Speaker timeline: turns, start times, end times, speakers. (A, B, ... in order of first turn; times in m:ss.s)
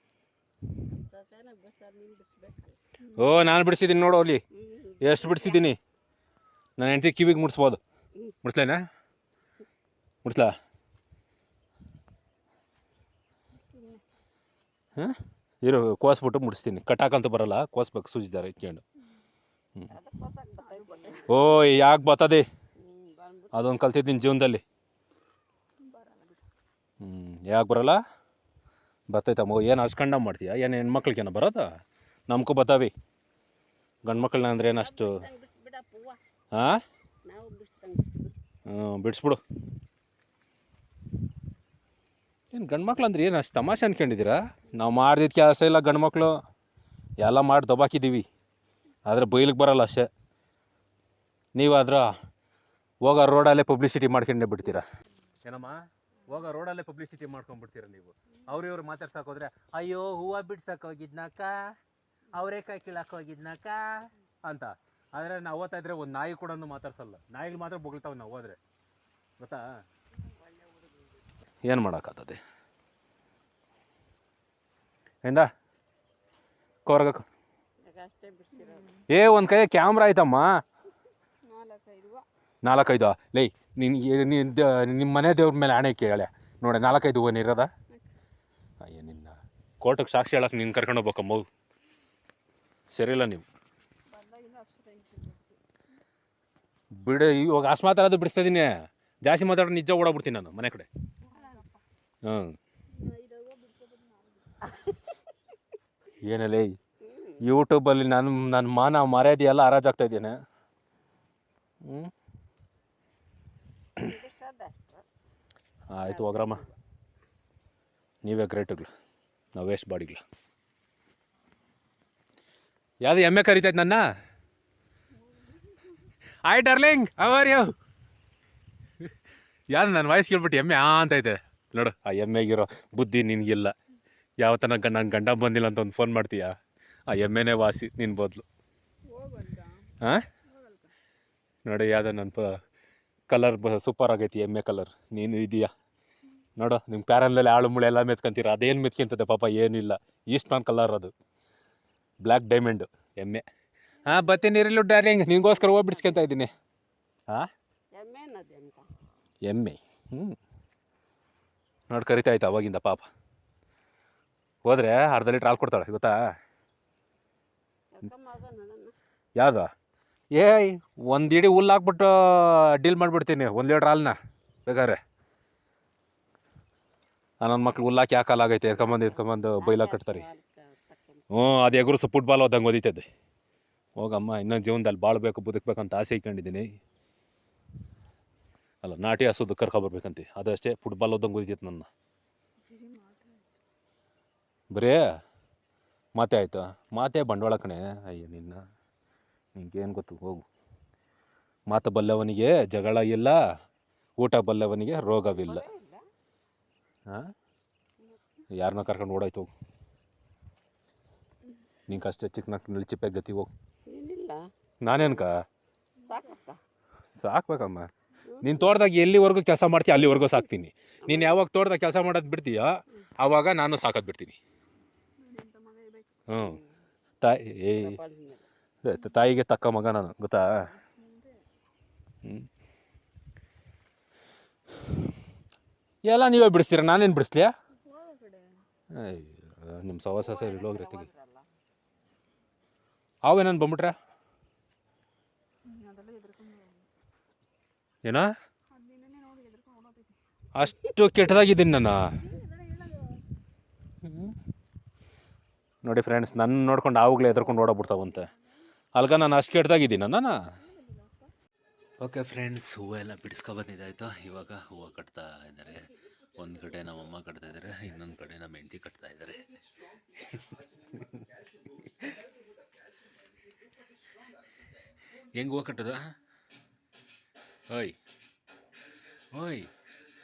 0:00.8-0:02.8 A
0:03.0-0:03.3 B
0:03.1-0:04.4 C
0:04.6-0:05.7 A
0:05.0-0:05.8 C
0:06.8-0:07.8 C
0:08.4-0:08.8 C
0:10.2-0:10.5 C
0:13.7-0:14.0 B
0:15.0-0:18.8 C
0:19.9-0:21.4 A
0:20.6-0:21.3 B
0:21.3-0:22.4 C
0:22.8-0:23.8 A
0:23.5-0:24.6 C
0:25.8-0:26.4 B
0:27.0-0:28.0 C
0:29.1-0:31.7 C
0:32.3-0:32.9 C
0:34.0-0:35.2 C
0:34.7-0:36.2 A
0:36.5-0:36.8 C
0:37.2-0:38.4 A
0:38.7-0:39.4 C
0:42.5-0:46.4 C
0:47.2-0:48.3 C
0:49.0-0:50.1 C
0:51.6-0:52.1 C
0:53.0-0:54.8 C
0:55.4-1:01.7 C
1:02.3-1:08.6 C
1:10.2-1:11.2 A
1:11.6-1:12.4 C
1:16.8-1:17.3 C
1:17.8-1:19.0 A
1:18.5-1:19.0 B
1:19.1-1:20.5 C
1:21.4-1:22.2 B
1:22.6-1:27.7 C
1:28.8-1:31.5 C
1:32.9-1:33.4 C
1:34.1-1:35.6 B
1:37.0-1:38.7 C
1:39.2-1:40.9 C
1:41.2-1:41.8 B
1:42.2-1:42.6 C
1:42.9-1:44.7 B
1:46.2-1:46.8 C
1:47.1-1:47.4 A
1:47.4-1:50.4 C
1:51.8-1:52.1 C
1:54.0-1:55.0 A
1:55.9-1:56.6 C
1:56.0-1:56.8 A
1:58.2-1:58.9 C
1:59.6-2:00.2 C
2:03.0-2:04.0 C
2:05.1-2:06.0 B
2:06.4-2:07.7 C
2:09.7-2:13.7 C
2:14.4-2:16.5 C
2:17.1-2:18.4 C
2:19.1-2:19.8 B
2:20.0-2:20.3 C
2:20.4-2:20.9 B
2:21.6-2:22.5 C
2:23.3-2:25.7 C
2:26.6-2:31.1 C
2:32.2-2:33.4 C
2:34.0-2:36.5 C
2:35.7-2:36.3 A
2:37.9-2:38.9 A
2:39.4-2:40.4 C
2:41.9-2:43.1 C
2:44.6-2:46.2 C
2:48.0-2:48.9 A
2:49.4-2:49.7 C
2:50.3-2:55.0 C
2:57.4-3:00.2 C
2:58.7-3:01.4 A
3:01.3-3:03.0 C
3:04.0-3:06.7 C
3:08.8-3:11.9 C
3:12.6-3:13.5 B
3:14.7-3:15.0 C
3:16.2-3:18.6 C
3:19.5-3:20.4 C
3:21.7-3:23.4 C
3:24.2-3:25.7 C
3:25.2-3:26.0 A
3:28.5-3:29.5 C
3:31.9-3:33.5 C
3:33.9-3:35.3 A
3:34.8-3:35.4 C
3:36.0-3:36.4 B
3:36.0-3:36.6 A
3:37.1-3:44.4 C
3:38.3-3:38.7 A
3:41.1-3:41.4 A
3:45.2-3:46.3 B
3:46.3-3:46.6 C
3:46.4-3:46.8 A
3:47.2-3:48.0 C
3:47.7-3:48.4 A
3:48.8-3:50.5 C
3:50.7-3:51.4 B
3:56.0-3:57.5 C
3:57.8-3:58.6 B
3:58.9-4:01.1 C
4:00.2-4:01.5 A
4:03.2-4:03.9 C
4:05.6-4:06.9 B
4:08.0-4:08.3 C
4:08.7-4:10.2 B
4:10.5-4:12.1 C
4:12.2-4:13.2 B
4:14.0-4:14.4 C
4:15.8-4:18.3 C
4:17.7-4:18.4 B
4:18.9-4:20.4 C
4:20.6-4:21.3 B
4:22.0-4:29.4 C
4:30.1-4:31.2 C
4:31.8-4:32.1 C
4:35.3-4:36.1 C
4:37.7-4:38.0 C
4:39.3-4:39.7 C